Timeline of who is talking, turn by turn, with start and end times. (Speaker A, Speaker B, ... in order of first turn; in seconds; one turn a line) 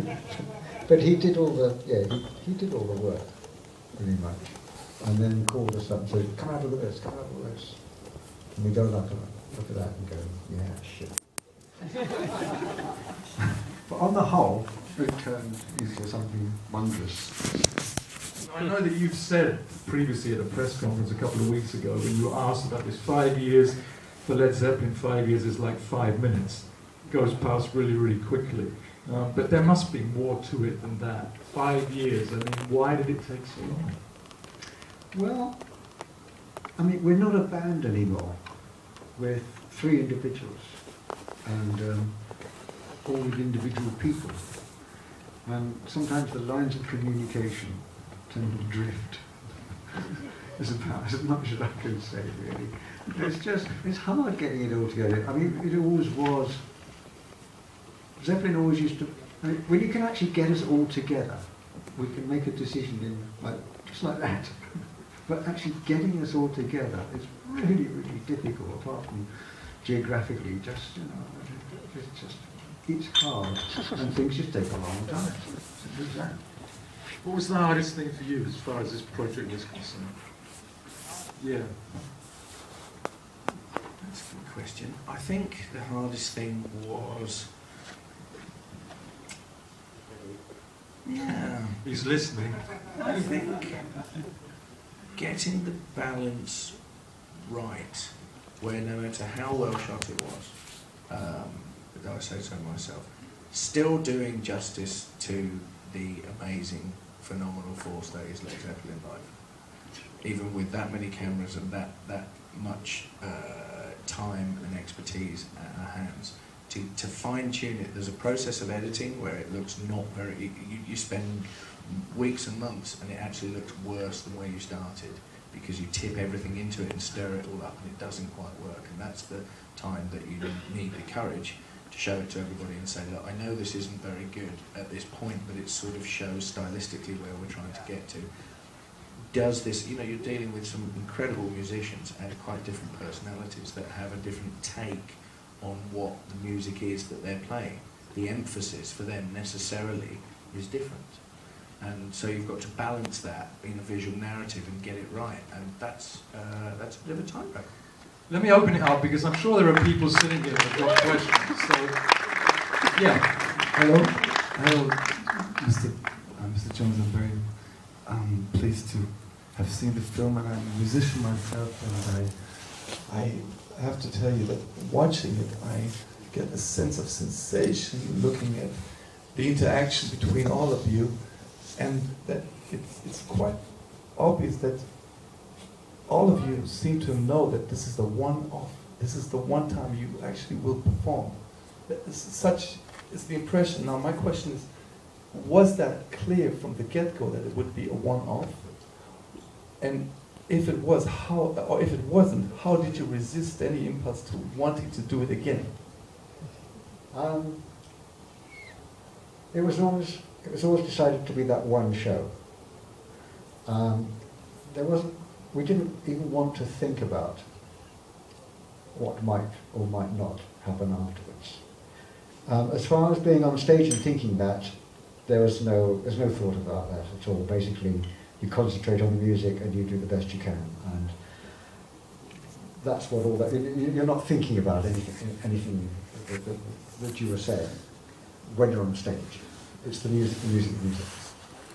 Speaker A: 0.8-11.6
Speaker A: 13.8-17.7
Speaker B: 18.4-34.0
Speaker A: 35.1-36.1
Speaker A: 36.8-44.9
Speaker A: 45.4-49.8
Speaker A: 50.4-56.7
Speaker A: 58.2-76.5
Speaker B: 77.2-80.7
Speaker B: 81.4-82.0
Speaker C: 84.0-87.8
Speaker C: 91.0-91.8
Speaker B: 91.8-92.8
Speaker C: 93.0-94.2
Speaker C: 95.1-157.8
Speaker B: 158.3-163.4
Speaker D: 163.4-185.5
Speaker D: 186.0-205.8
Speaker A: 207.1-207.7
Speaker A: 209.5-212.6
Speaker A: 213.6-217.7
Speaker A: 218.9-231.9
Speaker A: 232.7-241.5